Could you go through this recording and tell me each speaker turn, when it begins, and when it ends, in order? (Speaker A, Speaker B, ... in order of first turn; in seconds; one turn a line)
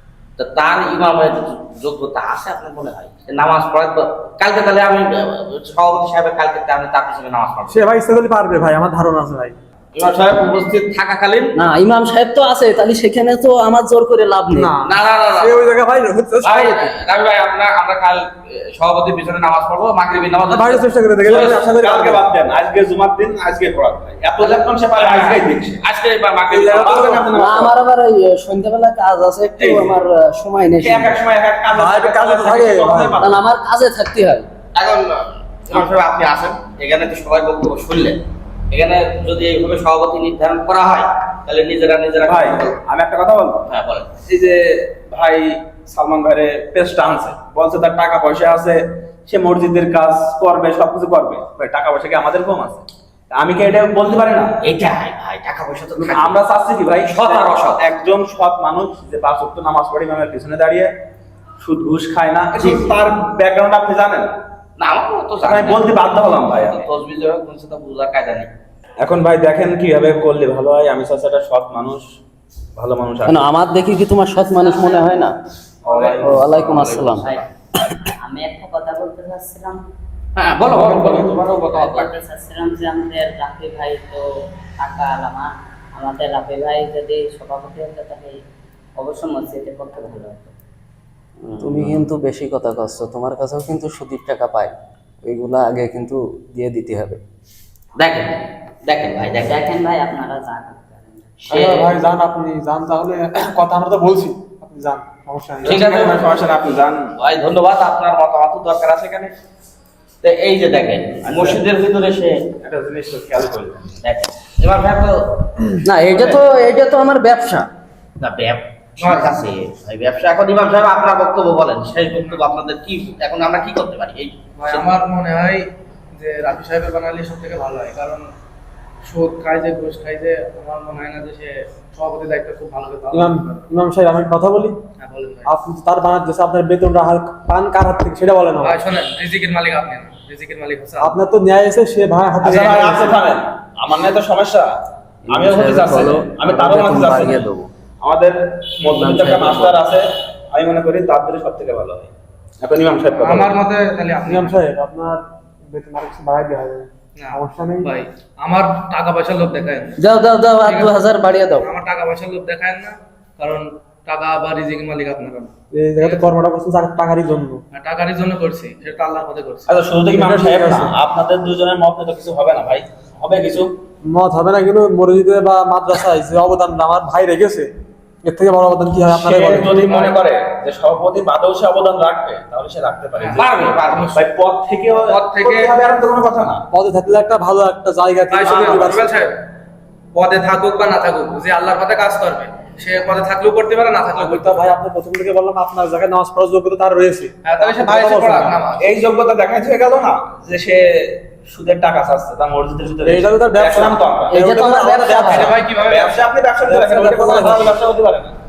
Speaker A: 0.4-7.8
Speaker B: 7.7-9.6
Speaker A: 9.9-11.5
Speaker C: 11.6-14.7
Speaker B: 14.5-16.9
Speaker A: 14.8-15.6
Speaker A: 16.4-21.6
Speaker B: 20.5-22.2
Speaker D: 21.3-25.8
Speaker A: 24.4-27.4
Speaker D: 26.5-27.8
Speaker B: 26.6-27.3
Speaker C: 27.3-31.2
Speaker D: 29.6-30.0
Speaker D: 30.8-33.4
Speaker B: 31.7-33.2
Speaker C: 33.2-34.5
Speaker A: 34.8-38.2
Speaker A: 38.7-42.8
Speaker D: 42.2-43.6
Speaker A: 43.6-44.1
Speaker D: 44.3-54.5
Speaker A: 54.6-56.4
Speaker D: 56.0-60.9
Speaker A: 57.1-57.8
Speaker D: 61.6-64.3
Speaker A: 62.6-63.0
Speaker A: 64.8-68.5
Speaker D: 65.4-66.8
Speaker D: 69.0-72.0
Speaker D: 72.8-73.5
Speaker C: 73.2-75.4
Speaker E: 74.6-75.2
Speaker D: 75.8-77.1
Speaker A: 75.9-77.5
Speaker C: 76.2-77.3
Speaker E: 78.2-79.8
Speaker A: 80.4-82.2
Speaker D: 80.7-81.3
Speaker E: 81.5-84.3
Speaker E: 84.8-88.4
Speaker E: 89.0-90.5
Speaker C: 91.6-97.2
Speaker A: 91.6-92.0
Speaker A: 98.0-99.7
Speaker E: 99.4-101.6
Speaker A: 101.5-101.9
Speaker B: 101.5-105.8
Speaker A: 105.7-106.6
Speaker D: 105.7-107.1
Speaker A: 107.2-109.3
Speaker A: 110.2-112.3
Speaker D: 111.2-111.6
Speaker D: 112.6-114.0
Speaker A: 114.0-115.5
Speaker C: 115.8-117.7
Speaker A: 118.2-124.9
Speaker F: 119.0-119.3
Speaker F: 124.6-128.3
Speaker F: 129.1-133.6
Speaker B: 133.1-134.8
Speaker F: 135.0-135.5
Speaker B: 135.4-138.8
Speaker F: 138.6-141.2
Speaker B: 141.0-143.2
Speaker D: 142.4-144.7
Speaker C: 145.3-147.7
Speaker D: 145.3-147.4
Speaker D: 148.0-153.6
Speaker C: 148.9-149.8
Speaker F: 153.2-154.6
Speaker B: 154.3-157.9
Speaker F: 157.2-160.0
Speaker C: 160.0-161.7
Speaker F: 160.6-160.9
Speaker F: 161.6-166.2
Speaker B: 165.7-167.6
Speaker F: 167.7-169.8
Speaker D: 169.7-173.7
Speaker B: 170.1-170.9
Speaker B: 174.0-177.7
Speaker B: 178.2-179.9
Speaker D: 179.1-183.4
Speaker F: 179.8-180.2
Speaker F: 183.1-184.3
Speaker A: 183.3-184.2
Speaker D: 184.1-186.6
Speaker F: 184.9-185.8
Speaker B: 186.7-189.1
Speaker F: 188.3-189.3
Speaker D: 188.5-189.0
Speaker F: 190.1-194.7
Speaker B: 194.1-198.6
Speaker F: 197.4-198.9
Speaker D: 198.8-204.4
Speaker B: 203.1-205.5
Speaker C: 204.3-205.5
Speaker F: 205.2-206.2
Speaker D: 205.8-208.3
Speaker B: 206.6-207.7